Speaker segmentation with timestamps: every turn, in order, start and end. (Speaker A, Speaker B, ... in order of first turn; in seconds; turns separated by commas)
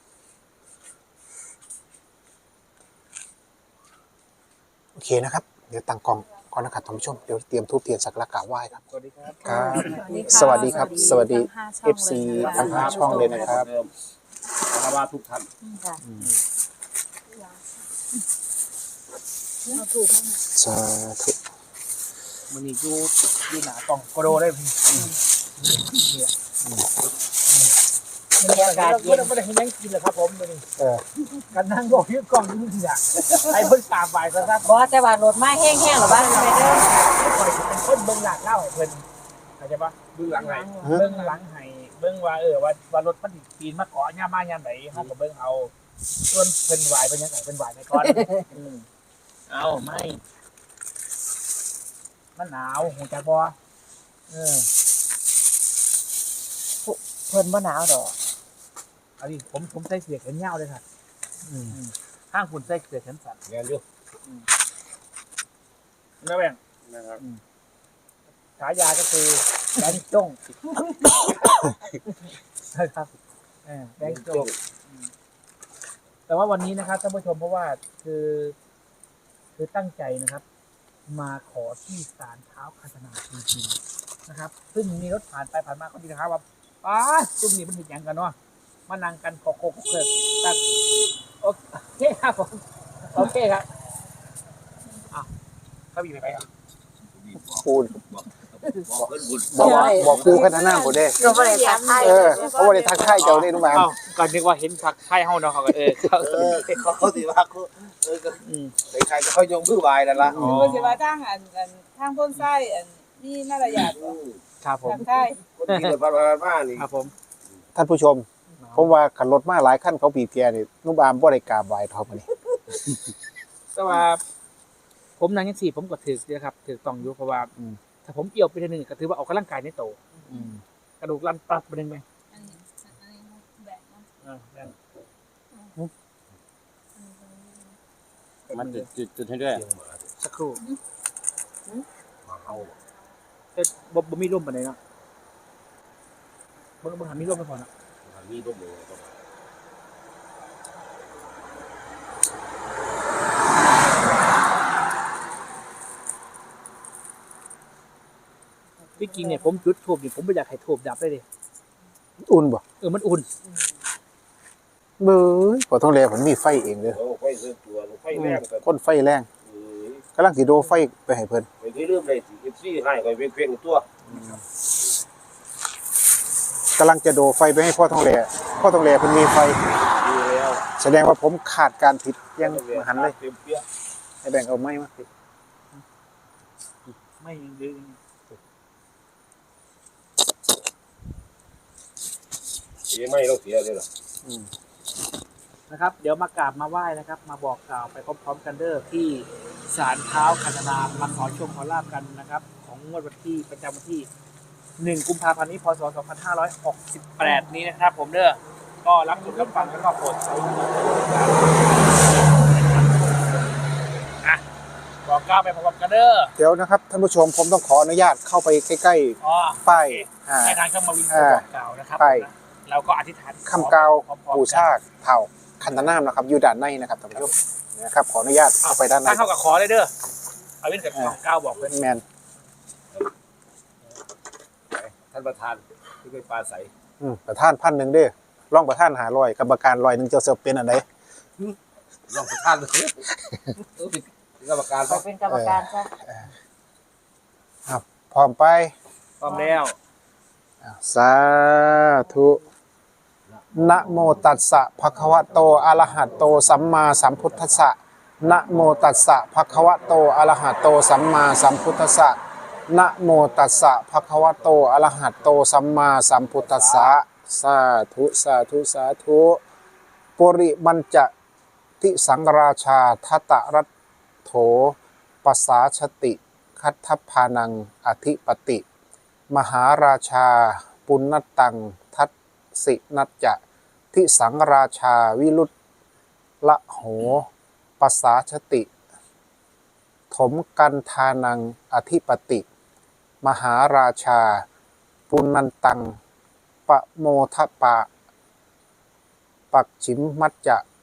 Speaker A: 5.0-8.8, Speaker B: 8.8-10.7, Speaker C: 9.4-11.3, Speaker D: 9.4-13.6, Speaker A: 9.4-13.7, Speaker E: 10.2-10.5, Speaker E: 12.4-13.9, Speaker C: 12.4-13.0, Speaker B: 12.7-12.9, Speaker E: 14.7-15.5, Speaker A: 16.0-16.3, Speaker D: 17.3-17.6, Speaker D: 19.7-20.4, Speaker A: 20.6-21.4, Speaker B: 22.5-25.0, Speaker B: 25.6-26.3, Speaker A: 26.6-26.9, Speaker C: 28.4-29.3, Speaker B: 28.4-30.7, Speaker A: 30.8-31.0, Speaker B: 31.5-34.8, Speaker C: 34.6-36.9, Speaker B: 36.0-39.0, Speaker B: 39.6-45.7, Speaker C: 40.2-41.3, Speaker B: 46.3-48.9, Speaker C: 48.0-48.5, Speaker B: 49.5-50.2, Speaker B: 52.4-53.6, Speaker B: 54.3-54.7, Speaker C: 56.8-58.2, Speaker B: 59.2-60.8, Speaker A: 61.5-61.8, Speaker B: 61.7-63.4, Speaker E: 63.5-63.8, Speaker B: 66.2-66.6, Speaker E: 66.9-67.2, Speaker B: 68.6-70.4, Speaker B: 72.7-73.1, Speaker B: 73.7-75.1, Speaker E: 74.0-74.6, Speaker B: 76.3-78.6, Speaker B: 79.5-80.5, Speaker B: 81.1-88.4, Speaker B: 88.9-90.6, Speaker B: 91.4-93.7, Speaker B: 95.9-96.5, Speaker E: 97.1-100.5, Speaker A: 97.6-98.0, Speaker A: 99.5-101.2, Speaker C: 99.5-103.0, Speaker D: 99.6-103.4, Speaker A: 102.0-103.9, Speaker B: 103.2-106.8, Speaker E: 106.0-110.5, Speaker B: 108.5-108.7, Speaker A: 110.3-110.7, Speaker B: 110.3-111.0, Speaker D: 110.4-114.2, Speaker E: 113.7-114.4, Speaker B: 114.6-115.1, Speaker D: 114.8-115.4, Speaker E: 115.6-116.9, Speaker B: 115.7-116.0, Speaker B: 116.8-117.1, Speaker A: 117.8-122.3, Speaker B: 118.6-119.0, Speaker B: 123.7-124.2, Speaker B: 125.2-127.5, Speaker B: 128.0-130.0, Speaker A: 130.3-130.6, Speaker D: 130.3-130.6, Speaker B: 131.0-132.0, Speaker D: 132.3-134.1, Speaker B: 134.2-134.8, Speaker D: 137.0-137.8, Speaker B: 138.5-138.9, Speaker E: 138.5-140.1, Speaker B: 140.2-140.6, Speaker E: 142.2-142.8, Speaker B: 143.6-144.8, Speaker B: 146.8-147.7, Speaker E: 148.0-149.2, Speaker C: 158.8-159.7, Speaker B: 159.0-161.2, Speaker A: 162.2-162.6, Speaker B: 162.8-163.3, Speaker C: 163.4-163.8, Speaker A: 165.0-167.0, Speaker E: 166.9-168.7, Speaker A: 168.1-169.3, Speaker E: 169.4-170.0, Speaker A: 170.2-171.5, Speaker E: 171.6-173.9, Speaker A: 174.1-174.4, Speaker A: 176.8-179.6, Speaker E: 180.0-180.6, Speaker A: 180.8-183.2, Speaker E: 182.4-183.7, Speaker A: 184.2-185.1, Speaker B: 187.2-188.0, Speaker E: 192.9-193.9, Speaker A: 194.2-194.5, Speaker B: 195.7-204.1, Speaker B: 204.8-213.2, Speaker C: 209.1-209.8, Speaker B: 215.1-216.3, Speaker A: 216.4-221.4, Speaker B: 219.2-224.7, Speaker A: 222.0-222.3, Speaker A: 223.5-229.3, Speaker B: 228.7-229.9, Speaker B: 230.6-231.7, Speaker A: 230.9-232.0, Speaker E: 234.7-236.7, Speaker A: 237.0-240.9, Speaker E: 242.1-243.2, Speaker E: 243.8-245.1, Speaker C: 244.9-245.9, Speaker A: 245.3-246.3, Speaker A: 247.7-248.8, Speaker B: 249.2-249.8, Speaker C: 249.3-249.6, Speaker A: 250.6-252.4, Speaker A: 253.5-269.4, Speaker E: 263.2-263.7, Speaker E: 264.2-265.3, Speaker E: 266.4-266.9, Speaker A: 270.2-271.1, Speaker A: 271.8-273.7, Speaker A: 274.2-278.6, Speaker A: 279.3-283.4, Speaker A: 283.9-285.5, Speaker A: 286.4-287.3, Speaker A: 287.8-288.7, Speaker A: 290.1-292.4, Speaker A: 293.2-294.5, Speaker A: 295.1-296.0, Speaker A: 296.7-297.9, Speaker A: 299.5-300.6